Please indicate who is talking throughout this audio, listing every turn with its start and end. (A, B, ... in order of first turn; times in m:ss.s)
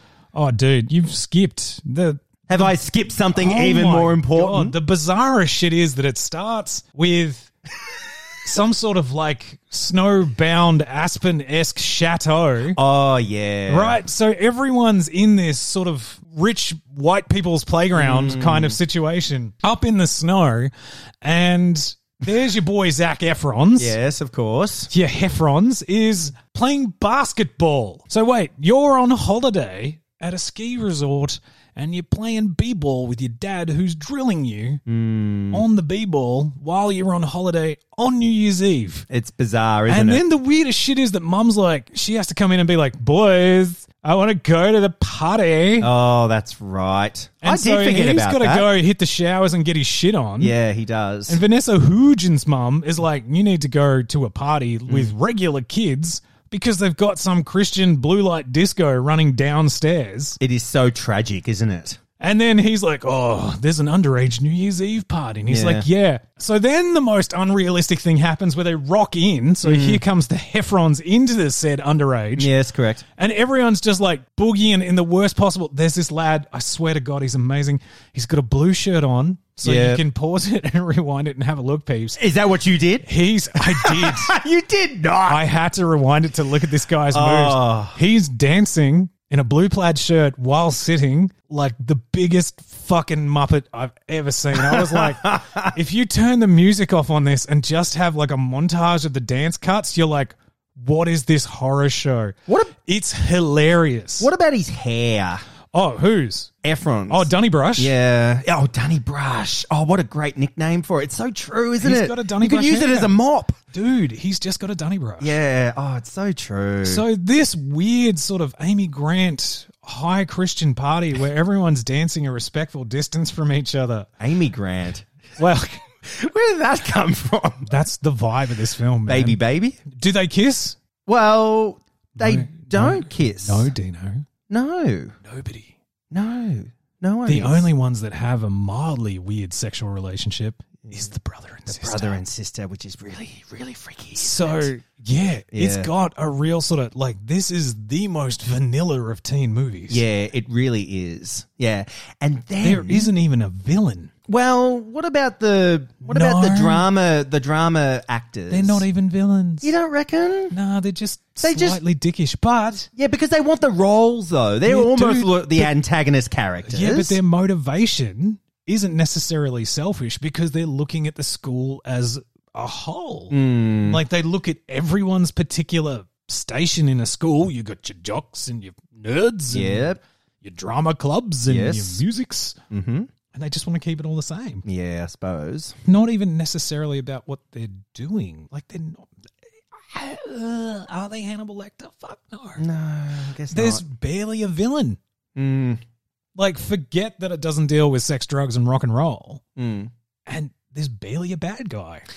0:00.3-0:02.7 A
0:02.5-0:04.7 B
0:03.3-0:07.5 A
0:08.4-0:12.8 A
0:12.8-0:14.0 B
0:13.7-0:20.7 A
0:18.0-0:18.8 B
0:21.2-0:24.0 A
0:23.8-0:24.9 B
0:24.9-0:34.8 A
0:34.8-0:35.6 B
0:35.5-0:39.1 A
0:39.1-0:40.2 B
0:39.9-0:45.9 A
0:45.8-0:48.7 B
0:47.4-0:50.5 A
0:50.4-0:51.4 B
0:51.3-1:00.4 A
0:54.9-0:55.1 B
1:00.4-1:02.0 B
1:02.2-1:12.5 A
1:05.5-1:05.8 B
1:09.6-1:10.0 B
1:12.4-1:13.0 B
1:13.2-1:22.2 A
1:19.6-1:20.0 B
1:22.2-1:25.4 B
1:23.0-1:24.3 A
1:25.3-1:44.3 A
1:27.1-1:28.0 B
1:34.5-1:35.8 B
1:42.5-1:42.7 B
1:44.2-1:45.4 B
1:45.7-1:46.5 A
1:46.6-1:53.6 B
1:47.1-1:47.9 A
1:51.8-1:53.1 A
1:53.7-1:55.3 A
1:55.2-1:57.0 B
1:56.8-2:04.1 A
2:04.2-2:05.0 B
2:05.4-2:05.8 A
2:06.0-2:07.7 B
2:07.7-2:10.8 A
2:09.1-2:09.8 B
2:11.1-2:13.7 B
2:12.2-2:14.2 A
2:14.5-2:15.1 B
2:15.2-2:15.7 A
2:16.1-2:17.7 B
2:17.2-2:22.2 A
2:21.7-2:24.7 B
2:24.1-2:30.0 A
2:25.5-2:25.9 B
2:29.9-2:33.1 B
2:32.6-2:34.1 A
2:34.3-2:38.8 B
2:36.1-2:36.9 A
2:38.5-2:39.7 A
2:39.6-2:40.6 B
2:40.5-2:42.9 A
2:41.4-2:41.8 B
2:43.0-2:47.2 B
2:44.6-2:45.7 A
2:46.6-3:02.6 A
2:53.3-2:54.0 B
2:59.5-3:00.0 B
3:01.4-3:02.0 B
3:02.7-3:03.1 B
3:03.3-3:04.6 A
3:04.6-3:05.8 B
3:05.8-3:09.1 A
3:09.8-3:12.6 A
3:12.6-3:13.8 B
3:13.5-3:15.0 A
3:15.3-3:15.8 B
3:16.4-3:19.4 A
3:19.6-3:19.9 B
3:20.3-3:22.0 A